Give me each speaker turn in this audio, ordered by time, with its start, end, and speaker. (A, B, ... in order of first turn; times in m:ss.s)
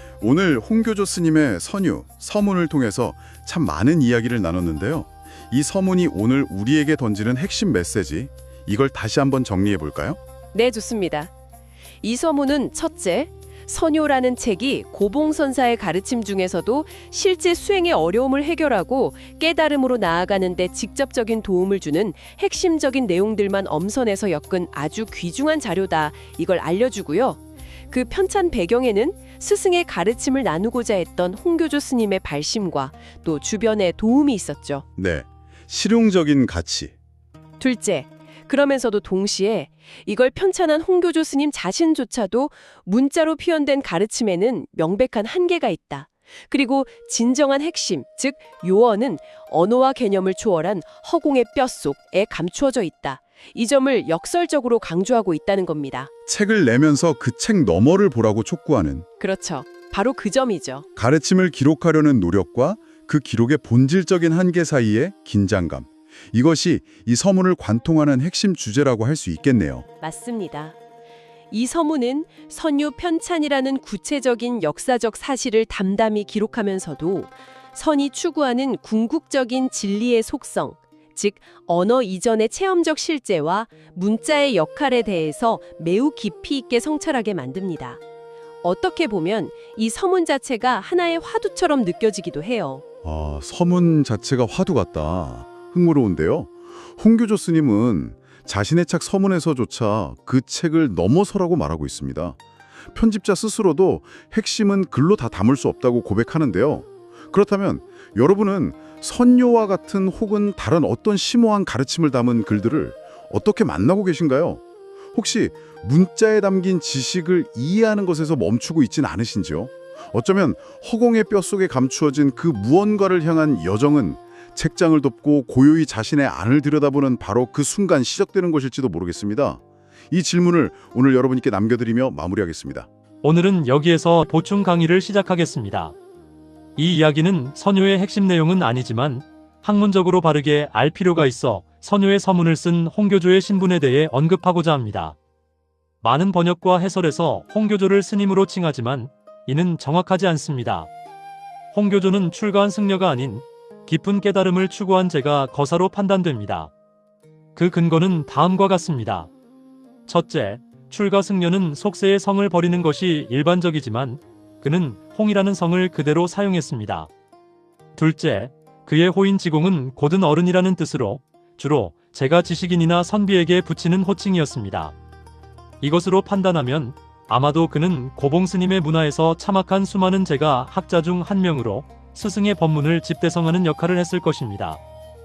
0:00.2-0:10.2 A
0:10.5-0:11.3 B
0:12.0-0:34.8 B
0:35.0-0:36.9 A
0:37.6-0:56.1 B
0:56.2-0:59.0 A
0:59.2-1:00.9 B
1:01.0-1:09.9 A
1:10.0-1:10.8 B
1:11.5-1:28.0 B
1:28.6-1:32.8 B
1:33.0-1:42.4 A
1:42.9-1:54.6 A
1:55.1-2:12.9 A
2:13.2-2:16.0 C
2:16.8-2:25.2 C
2:26.0-2:30.9 C
2:31.7-2:36.7 C
2:37.5-2:39.3 C
2:40.1-2:47.1 C
2:48.0-2:55.0 C
2:55.8-3:04.8 C